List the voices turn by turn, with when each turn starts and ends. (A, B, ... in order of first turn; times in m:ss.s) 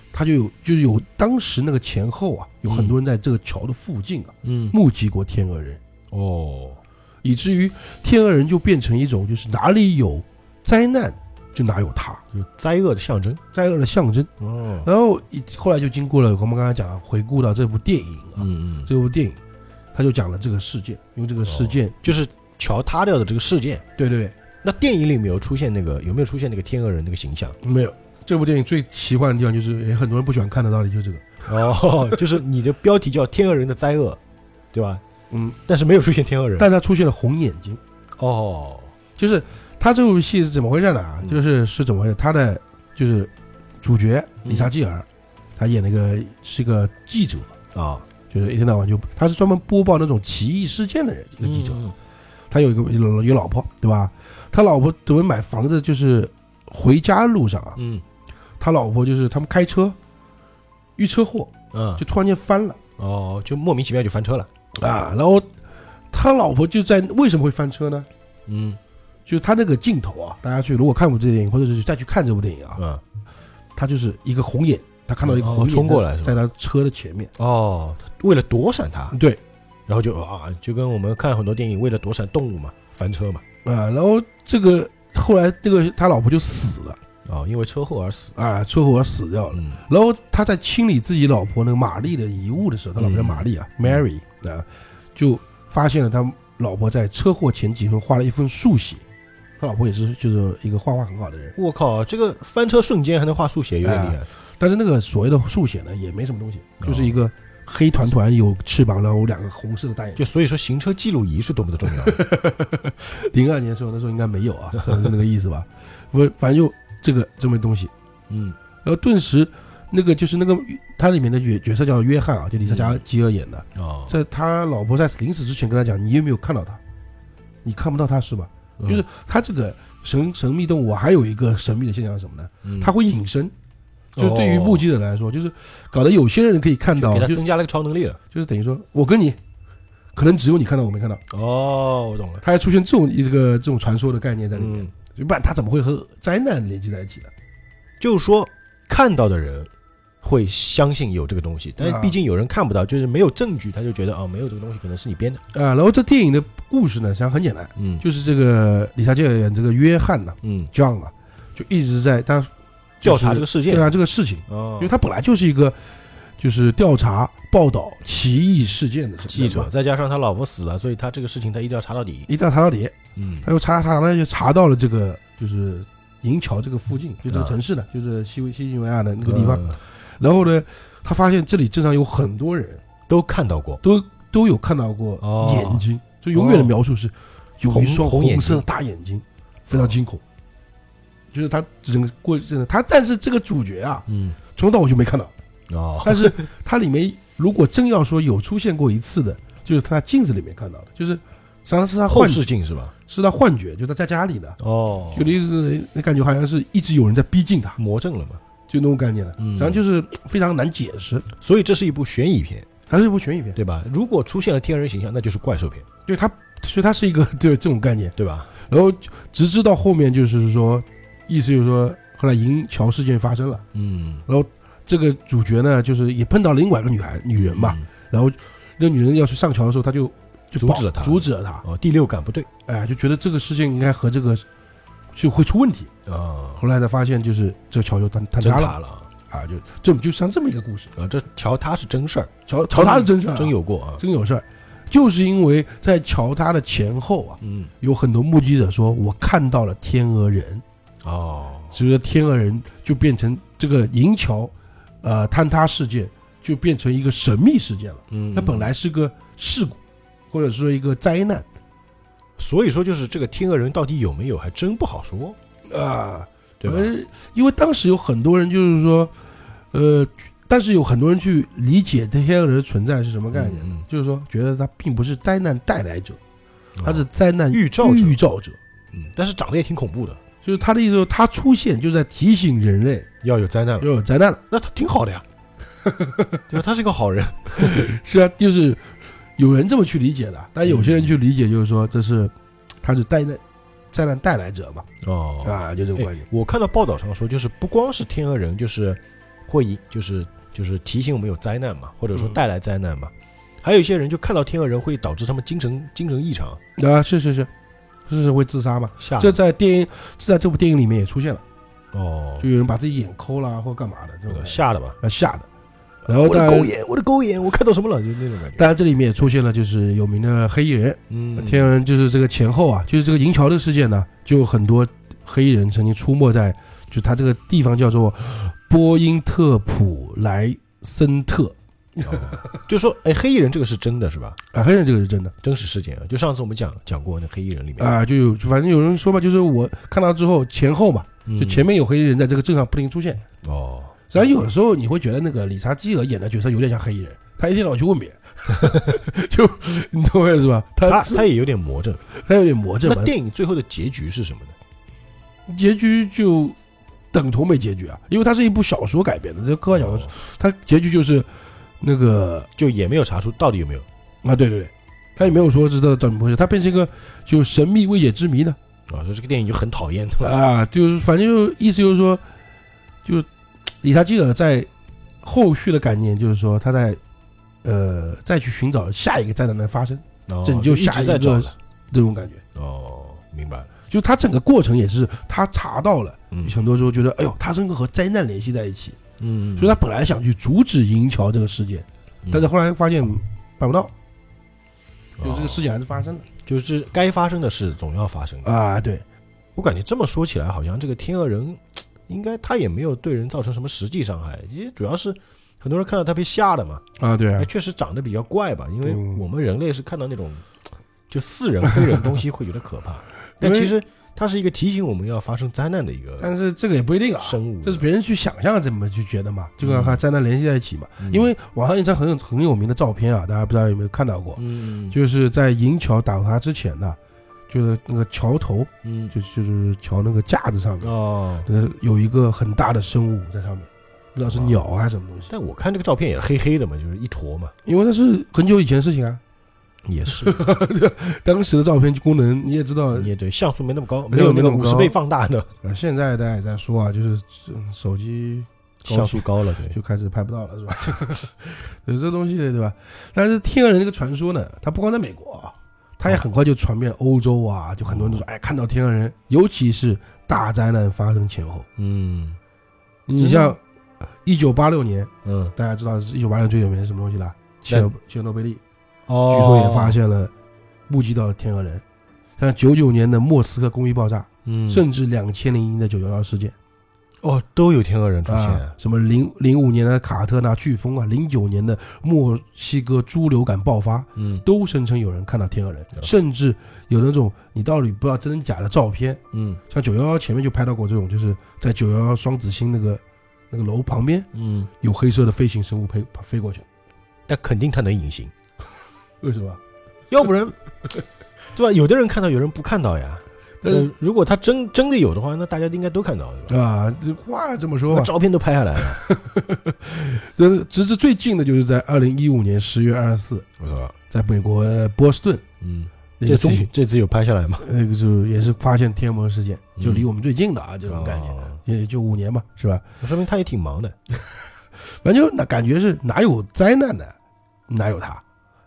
0:00.1-0:05.8 A
0:02.7-0:03.0 B
0:04.4-0:04.8 B
0:06.1-0:06.8 B
0:07.2-0:12.2 A
0:12.3-0:13.4 B
0:13.5-0:14.3 A
0:14.4-0:14.9 B
0:14.8-0:19.4 A
0:18.4-0:18.9 B
0:19.9-0:22.0 A
0:21.4-0:23.8 B
0:24.0-0:24.4 A
0:24.6-0:27.6 B
0:27.6-0:31.2 A
0:31.5-0:34.2 B
0:34.7-0:35.0 B
0:35.3-0:35.6 A
0:35.7-0:36.7 B
0:36.6-0:37.8 A
0:38.2-0:38.9 B
0:39.2-0:45.1 A
0:44.4-0:44.7 B
0:45.6-0:47.6 A
0:47.7-0:48.1 B
0:48.3-0:51.8 A
0:51.4-0:52.0 B
0:52.5-0:57.8 A
0:57.8-0:58.0 B
0:58.6-1:00.0 A
1:01.0-1:02.8 A
1:01.7-1:02.0 B
1:03.0-1:04.5 B
1:04.8-1:05.5 A
1:06.1-1:08.1 A
1:08.5-1:08.8 B
1:09.3-1:12.8 A
1:12.8-1:13.0 B
1:13.8-1:17.3 A
1:15.2-1:16.4 B
1:17.4-1:19.2 B
1:19.1-1:19.4 A
1:19.9-1:23.4 B
1:23.6-1:27.0 A
1:27.2-1:28.4 B
1:28.4-1:39.0 A
1:29.5-1:29.8 B
1:33.0-1:34.0 B
1:39.6-1:41.6 A
1:41.6-1:44.3 B
1:43.8-1:50.2 A
1:46.8-1:47.2 B
1:50.2-1:52.3 B
1:51.9-1:57.9 A
1:58.3-1:58.6 B
1:58.8-2:06.8 A
2:02.7-2:03.0 B
2:03.8-2:04.2 B
2:07.6-2:13.5 A
2:08.8-2:09.0 B
2:12.6-2:12.9 B
2:14.2-2:14.9 B
2:14.2-2:17.4 A
2:16.9-2:18.2 B
2:18.3-2:19.4 A
2:20.2-2:21.2 A
2:21.3-2:22.4 B
2:22.4-2:27.3 A
2:24.6-2:24.9 B
2:28.0-2:29.7 B
2:30.2-2:35.4 B
2:31.8-2:32.2 A
2:35.5-2:45.8 A
2:37.8-2:38.0 B
2:40.4-2:40.7 B
2:43.0-2:44.0 B
2:44.5-2:44.9 B
2:46.4-2:49.7 A
2:49.3-2:52.3 B
2:52.3-3:02.8 A
2:53.2-2:53.5 B
2:57.3-2:57.6 B
2:59.2-2:59.8 B
3:03.1-3:03.8 B
3:03.8-3:10.2 A
3:05.2-3:06.8 B
3:07.7-3:08.6 B
3:11.3-3:15.3 A
3:14.1-3:14.4 B
3:15.7-3:16.5 B
3:16.0-3:22.5 A
3:22.1-3:22.9 B
3:23.1-3:24.6 A
3:24.6-3:25.3 B
3:25.1-3:27.8 A
3:27.8-3:28.4 B
3:28.7-3:31.3 A
3:29.4-3:29.8 B
3:31.4-3:32.7 B
3:32.9-3:33.6 A
3:33.6-3:35.9 B
3:36.1-3:43.6 A
3:38.2-3:38.5 B
3:43.7-3:44.2 B
3:44.3-3:51.6 A
3:47.4-3:47.9 B
3:50.6-3:52.5 B
3:52.7-3:54.4 A
3:55.2-3:55.9 A
3:56.1-3:56.6 B
3:56.6-4:00.9 A
3:58.4-3:59.1 B
4:01.0-4:04.0 B
4:02.5-4:10.6 A
4:07.4-4:07.7 B
4:11.0-4:11.8 B
4:11.7-4:19.8 A
4:18.1-4:18.7 B
4:20.3-4:21.5 A
4:22.4-4:25.4 B
4:25.7-4:29.1 A
4:26.6-4:26.9 B
4:29.7-4:36.2 A
4:33.3-4:33.8 B
4:36.8-4:38.2 B
4:36.8-4:38.6 A
4:38.9-4:40.2 B
4:40.4-4:43.1 A
4:43.2-4:43.9 B
4:43.8-4:44.4 A
4:44.5-4:45.2 B
4:45.8-4:46.5 A
4:46.5-4:47.9 B
4:47.6-4:54.9 A
4:50.6-4:51.1 B
4:55.0-5:06.6 B
4:55.4-4:56.3 A
5:06.8-5:07.5 A
5:08.1-5:11.4 A
5:09.0-5:09.4 B
5:11.9-5:12.5 B
5:12.4-5:15.5 A
5:14.3-5:15.0 B
5:16.1-5:16.7 A
5:16.1-5:18.7 B
5:18.6-5:32.6 A
5:21.1-5:21.7 B
5:32.0-5:34.4 B
5:34.5-5:35.3 A
5:35.4-5:37.9 B
5:37.8-5:43.2 A
5:41.3-5:41.7 B
5:43.4-5:44.0 B
5:44.1-5:51.3 A
5:50.8-5:52.0 B
5:52.1-5:53.1 A
5:52.8-5:54.6 B
5:55.5-5:56.6 A
5:57.1-6:01.3 A
5:59.7-6:00.1 B
6:01.8-6:02.5 A
6:02.6-6:03.9 B
6:04.2-6:08.6 A
6:08.9-6:10.4 B
6:10.2-6:12.2 A
6:13.8-6:14.7 A
6:15.2-6:17.0 A
6:17.6-6:22.4 A
6:20.3-6:21.5 B
6:22.6-6:23.7 B
6:23.9-6:29.0 A
6:29.2-6:29.8 B
6:29.6-6:33.9 A
6:35.2-6:35.6 B
6:35.2-6:36.3 A
6:36.4-6:38.5 B
6:38.4-6:39.0 A
6:39.6-6:46.8 B
6:47.0-6:47.5 A
6:47.4-6:50.4 B
6:48.8-6:49.2 A
6:51.1-6:56.3 B
6:53.4-6:53.7 A
6:56.2-7:07.0 A
6:57.2-6:57.9 B
6:59.6-7:00.0 B
7:01.0-7:01.3 B
7:04.4-7:05.0 B
7:07.5-7:15.3 A
7:08.8-7:09.1 B
7:10.8-7:11.5 B
7:14.3-7:14.6 B
7:15.3-7:17.5 B
7:17.6-7:19.2 A
7:19.9-7:20.5 B
7:20.2-7:23.1 A
7:23.0-7:25.5 B
7:24.1-7:25.0 A
7:25.6-7:41.7 A
7:28.8-7:29.8 B
7:37.9-7:38.2 B
7:41.8-7:42.4 B
7:43.1-7:43.6 A
7:43.2-7:43.6 B
7:44.2-7:48.6 A
7:45.2-7:45.5 B
7:49.1-7:50.0 B
7:49.3-7:50.3 A
7:50.9-7:51.8 A
7:52.4-7:56.6 A
7:54.4-7:54.9 B
7:57.2-7:58.7 B
7:58.3-8:14.3 A
8:04.2-8:04.4 B
8:09.3-8:09.6 B
8:14.3-8:14.7 B
8:14.8-8:16.7 A
8:17.3-8:18.3 B
8:19.2-8:19.6 A
8:20.1-8:20.6 B
8:21.6-8:26.5 B
8:23.6-8:23.9 A
8:26.5-8:28.1 A
8:27.9-8:29.0 B
8:28.8-8:33.5 A
8:33.6-8:34.0 B
8:34.1-8:35.4 A
8:35.6-8:37.7 B
8:36.2-8:36.7 A
8:37.6-8:42.8 A
8:39.8-8:40.1 B
8:40.9-8:41.6 B
8:43.0-8:44.0 B
8:44.8-8:47.2 A
8:47.7-8:48.2 A